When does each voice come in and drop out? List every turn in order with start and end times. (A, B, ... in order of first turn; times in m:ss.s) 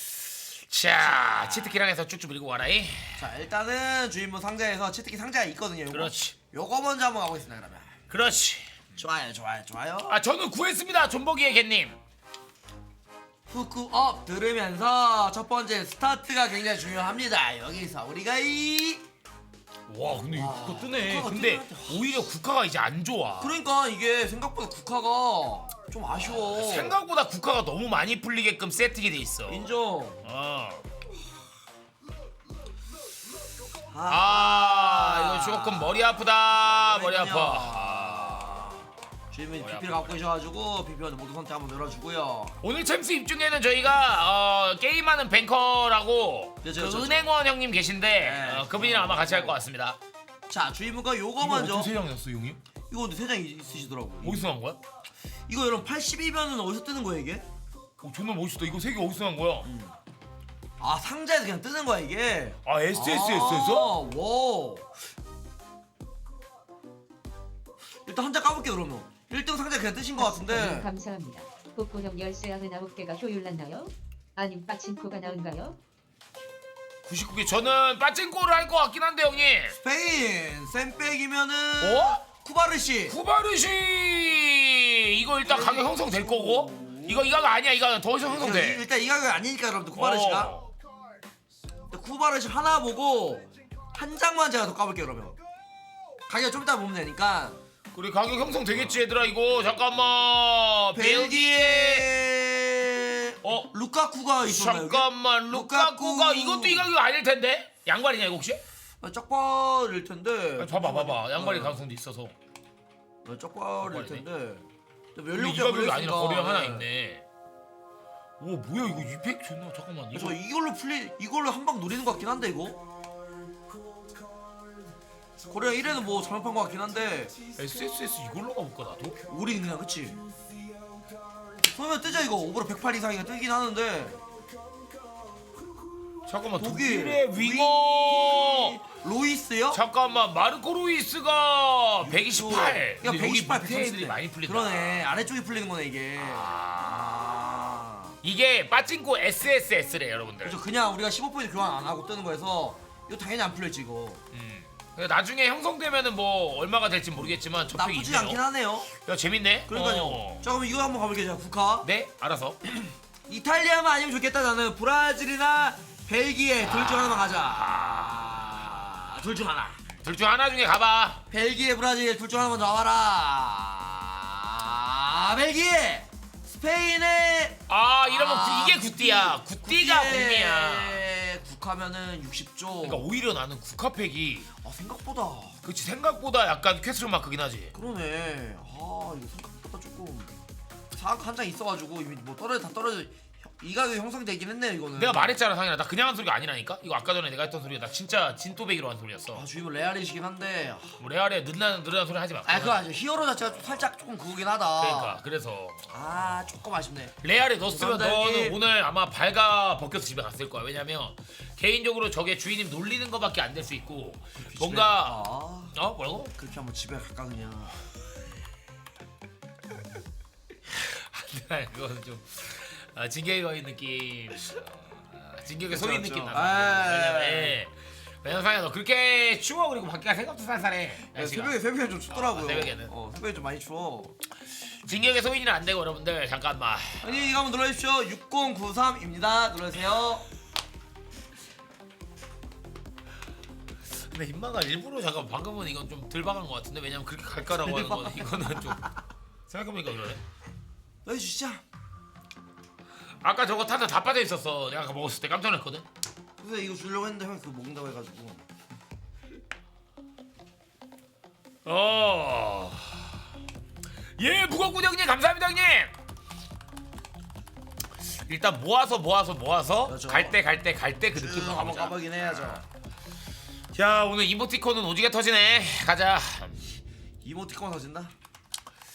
0:00.7-0:03.3 A
0:01.0-0:01.7 B
0:03.2-0:08.0 B
0:05.9-0:06.4 A
0:08.1-0:08.8 A
0:09.0-0:10.2 B
0:10.1-0:12.0 A
0:13.5-0:19.0 B
0:19.9-0:23.5 A
0:20.3-0:22.3 B
0:23.4-0:27.0 B
0:26.3-0:29.7 A
0:29.5-0:30.2 B
0:30.2-0:30.8 A
0:33.9-0:36.0 B
0:34.1-0:38.5 A
0:36.6-0:42.6 B
0:39.6-0:40.2 A
0:42.6-0:50.0 A
0:46.6-0:47.3 B
0:48.1-0:49.6 B
0:50.5-0:51.9 B
0:51.4-0:52.6 A
0:52.9-0:54.5 B
0:54.2-0:54.8 A
0:55.5-0:57.5 B
0:58.0-0:59.7 A
0:59.6-1:00.0 B
1:00.8-1:04.9 B
1:02.6-1:04.0 A
1:08.1-1:10.9 B
1:10.2-1:15.8 C
1:17.0-1:19.8 A
1:19.8-1:23.2 B
1:21.8-1:22.2 A
1:23.1-1:28.8 A
1:25.4-1:27.3 B
1:28.2-1:30.5 B
1:30.0-1:30.7 A
1:31.9-1:35.4 B
1:36.3-1:37.6 B
1:37.9-1:42.1 A
1:41.0-1:46.9 B
1:43.4-1:43.7 A
1:44.4-1:48.6 A
1:49.0-1:51.8 B
1:50.6-1:52.3 A
1:53.2-1:56.9 B
1:53.8-1:54.3 A
1:55.3-1:57.2 A
1:58.4-2:00.4 A
2:00.1-2:02.8 B
2:05.5-2:07.4 B
2:07.6-2:09.2 A
2:09.3-2:10.2 B
2:11.7-2:14.2 B
2:16.3-2:18.8 A
2:16.6-2:19.8 B
2:19.7-2:25.1 A
2:22.0-2:28.2 B
2:26.2-2:27.2 A
2:28.2-2:30.6 A
2:30.4-2:34.2 B
2:34.3-2:40.4 A
2:37.8-2:38.9 B
2:39.7-2:41.9 B
2:41.8-2:42.6 A
2:43.3-2:49.8 B
2:46.6-2:48.5 A
2:50.0-2:51.2 A
2:51.3-3:03.1 B
2:57.7-3:01.1 A
3:02.8-3:04.5 A
3:04.6-3:05.6 B
3:05.6-3:07.7 A
3:07.7-3:10.4 B
3:10.9-3:15.4 B
3:15.0-3:19.5 A
3:19.3-3:20.9 B
3:21.0-3:22.8 A
3:22.5-3:25.2 B
3:24.8-3:25.9 A
3:25.9-3:27.2 B
3:27.2-3:35.2 A
3:27.7-3:28.6 B
3:34.4-3:35.7 B
3:35.7-3:36.3 A
3:36.4-3:37.8 B
3:40.7-3:44.7 A
3:45.3-3:51.6 A
3:45.7-3:47.6 B
3:51.1-3:54.2 B
3:52.1-3:52.9 A
3:54.7-3:57.2 A
3:57.0-4:00.3 B
4:04.0-4:08.8 A
4:07.4-4:08.9 B
4:09.5-4:10.2 A
4:11.0-4:11.6 B
4:13.2-4:15.8 A
4:16.4-4:18.4 B
4:21.6-4:23.0 A
4:24.2-4:25.9 A
4:28.0-4:32.6 A
4:29.9-4:30.4 B
4:31.1-4:32.6 B
4:33.7-4:36.6 A
4:37.2-4:38.1 B